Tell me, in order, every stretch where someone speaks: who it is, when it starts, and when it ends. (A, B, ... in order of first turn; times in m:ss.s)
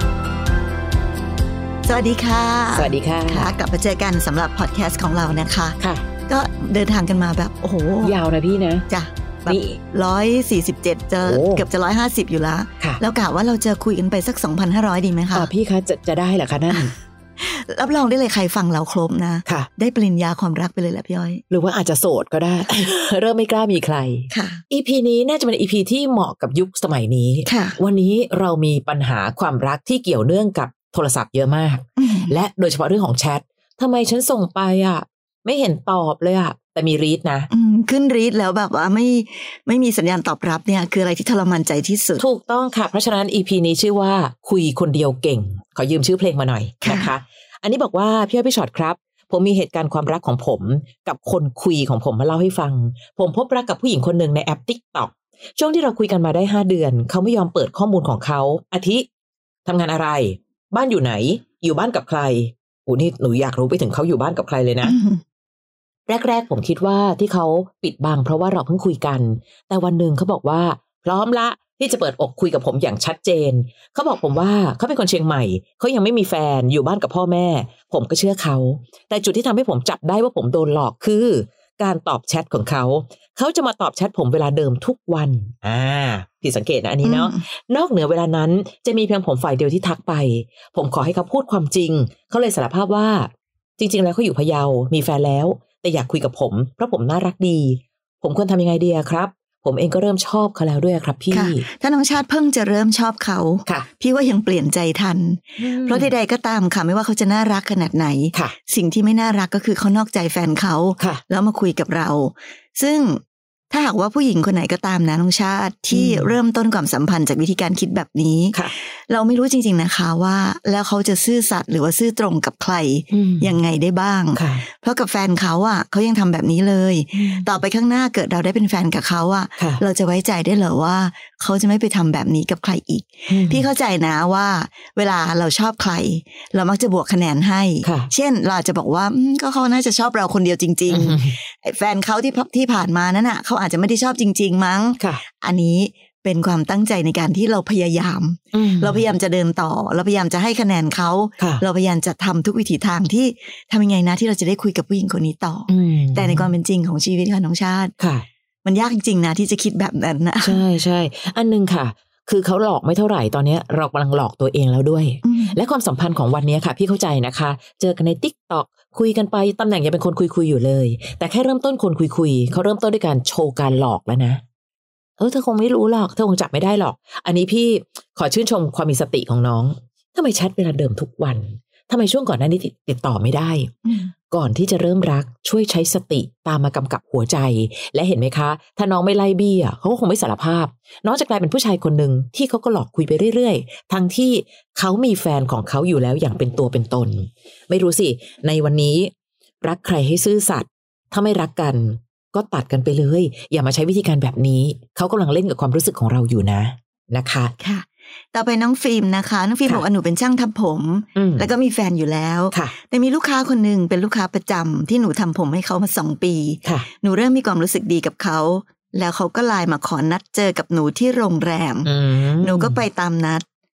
0:01.8-0:05.8 A
0:02.7-0:03.5 B
0:05.8-0:06.0 B
0:06.3-0:08.1 A
0:08.0-0:08.8 B
0:08.9-0:15.5 A
0:09.5-0:09.8 B
0:11.2-0:11.6 B
0:15.3-0:16.9 B
0:16.7-0:21.4 A
0:21.5-0:37.5 B
0:24.3-0:24.6 A
0:27.4-0:27.8 A
0:32.0-0:32.3 A
0:37.5-0:42.2 A
0:42.2-0:59.0 B
0:46.8-0:47.1 A
0:59.6-1:05.0 B
1:04.8-1:05.2 A
1:06.1-1:41.6 B
1:27.0-1:27.4 A
1:41.3-2:37.9 A
1:45.6-1:46.1 B
1:55.9-1:56.3 B
2:03.1-2:03.6 B
2:04.3-2:04.6 B
2:07.1-2:07.5 B
2:13.3-2:13.7 B
2:17.8-2:18.1 B
2:20.9-2:21.4 B
2:28.5-2:29.0 B
2:35.7-2:36.5 B
2:38.0-2:38.2 B
2:38.6-2:40.6 A
2:40.4-2:54.4 B
2:45.2-2:45.6 A
2:55.2-3:03.7 B
3:03.8-3:04.1 A
3:04.3-3:19.1 B
3:19.6-3:27.5 B
3:27.6-3:43.4 A
3:31.2-3:31.5 B
3:41.8-3:42.8 B